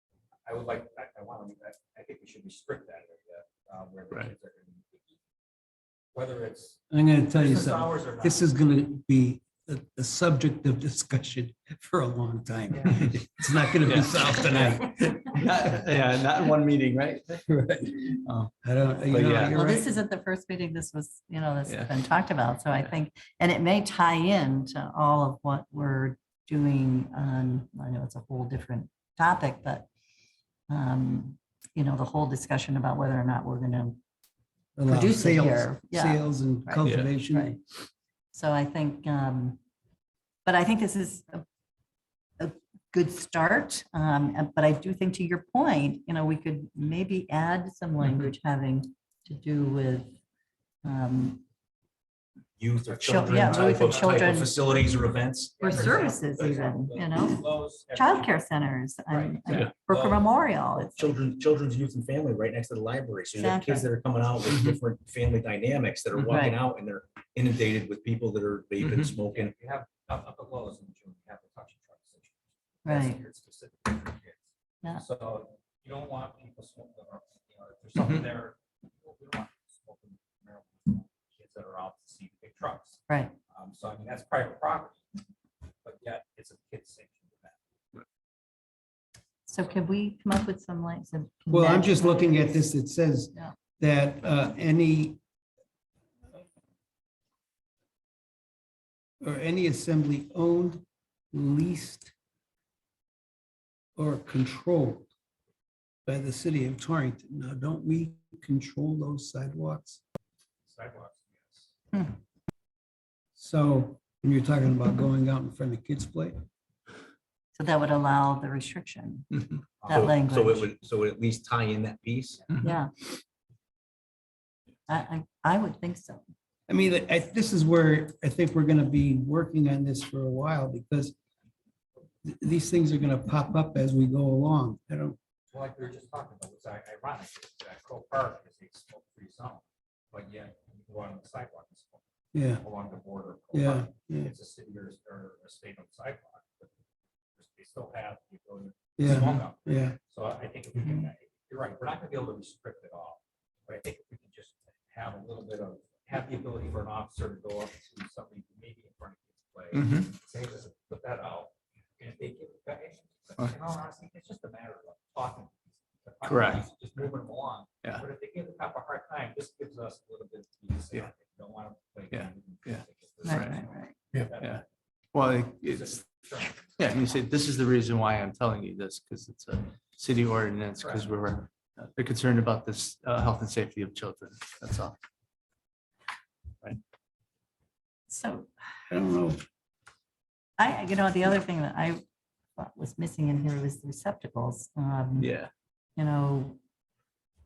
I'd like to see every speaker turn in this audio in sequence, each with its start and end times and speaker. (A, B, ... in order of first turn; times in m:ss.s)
0:00.4-0:05.1 A
0:06.1-0:08.5 A
0:06.9-0:14.9 B
0:13.9-0:18.5 C
0:18.6-0:19.9 B
0:19.1-0:19.6 C
0:19.4-0:29.9 D
0:21.7-0:21.9 C
0:30.7-0:34.0 D
0:34.8-0:37.6 B
0:34.9-0:37.6 D
0:36.8-0:37.2 C
0:38.3-0:39.6 D
0:40.4-0:41.4 D
0:42.4-0:50.1 D
0:50.8-0:51.4 D
0:52.6-0:55.8 E
0:53.0-0:54.5 A
0:53.0-0:54.6 D
0:55.6-0:58.5 A
0:55.6-1:01.2 D
0:59.1-1:00.2 A
1:00.8-1:09.5 E
1:03.3-1:03.9 D
1:06.3-1:06.6 D
1:09.3-1:25.0 A
1:12.9-1:13.2 D
1:23.1-1:23.3 D
1:25.8-1:27.6 A
1:29.5-1:32.7 D
1:31.5-1:35.2 B
1:39.2-1:42.1 B
1:44.0-1:45.1 B
1:46.1-1:50.0 B
1:50.7-1:51.7 A
1:53.4-1:56.4 B
1:57.6-2:00.7 D
1:59.8-2:02.4 E
2:02.6-2:02.9 D
2:04.9-2:06.3 D
2:06.7-2:11.1 B
2:12.2-2:15.2 B
2:15.5-2:26.7 A
2:22.3-2:22.6 B
2:23.5-2:24.3 B
2:27.4-2:54.6 A
2:29.0-2:30.0 B
2:39.7-2:40.1 C
2:46.3-2:46.6 C
2:52.1-2:53.6 C
2:53.2-2:53.9 D
2:54.4-2:56.0 C
2:55.7-2:56.7 A
2:56.8-3:05.0 C
3:00.8-3:01.1 A
3:08.1-3:08.5 D
3:08.9-3:09.4 B
3:10.6-3:12.0 D
3:12.6-3:15.4 D
3:15.2-3:15.5 C
3:16.0-3:16.6 D